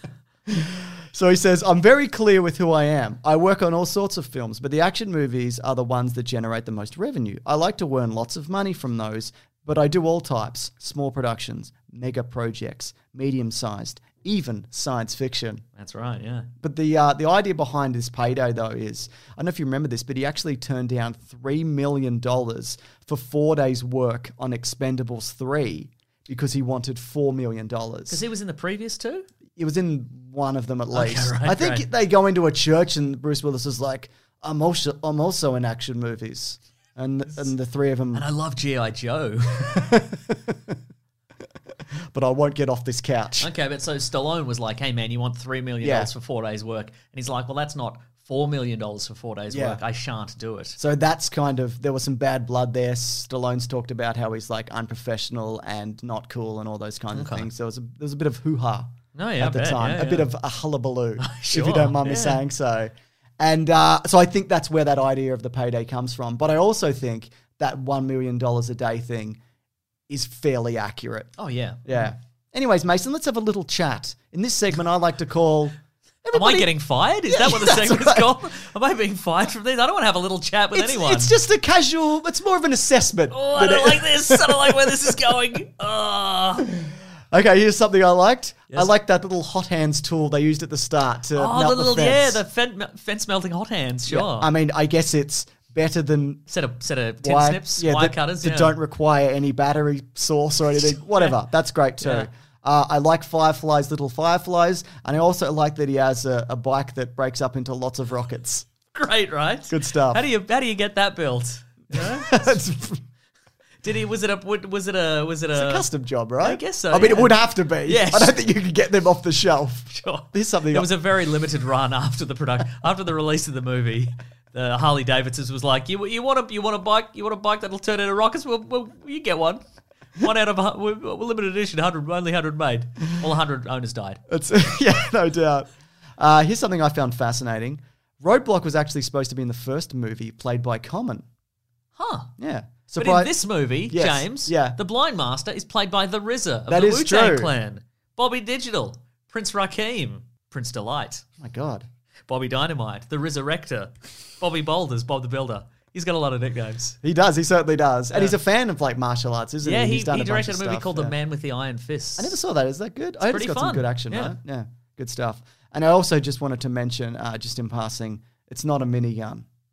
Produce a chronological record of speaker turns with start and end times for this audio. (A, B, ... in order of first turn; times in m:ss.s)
0:00.5-0:15.6 A
0:15.8-0:16.5 B
0:16.6-0:28.2 A
0:28.1-0:29.3 B
0:29.6-0:38.3 A
0:30.9-0:31.9 B
0:38.1-0:40.0 B
0:39.7-0:40.8 A
0:42.1-0:43.5 A
0:43.4-0:50.8 B
0:45.8-0:46.1 A
0:49.5-0:49.8 A
0:50.8-1:09.4 A
0:57.1-0:57.5 B
0:59.2-1:00.3 B
1:01.2-1:02.4 B
1:10.1-1:11.3 A
1:11.4-1:12.1 B
1:11.9-1:16.7 A
1:16.3-1:21.3 B
1:17.3-1:18.3 A
1:20.7-1:25.1 A
1:23.3-1:26.7 B
1:27.3-1:32.4 A
1:31.4-1:34.5 B
1:34.1-1:36.4 A
1:36.5-1:38.8 B
1:37.2-1:48.7 A
1:42.0-1:42.3 B
1:48.9-1:52.6 B
1:49.7-1:50.2 A
1:51.9-1:53.0 A
1:53.8-1:55.9 B
1:55.5-2:00.9 A
1:56.4-1:58.4 B
1:59.9-2:09.6 B
2:10.2-2:14.2 B
2:14.3-2:21.2 A
2:22.0-2:22.3 B
2:22.4-2:23.3 A
2:23.0-2:31.2 B
2:23.9-2:24.8 A
2:26.7-2:27.5 A
2:31.4-2:31.9 A
2:32.3-2:37.0 B
2:37.0-2:41.1 A
2:39.6-2:42.4 B
2:42.2-2:49.5 A
2:43.2-2:44.4 B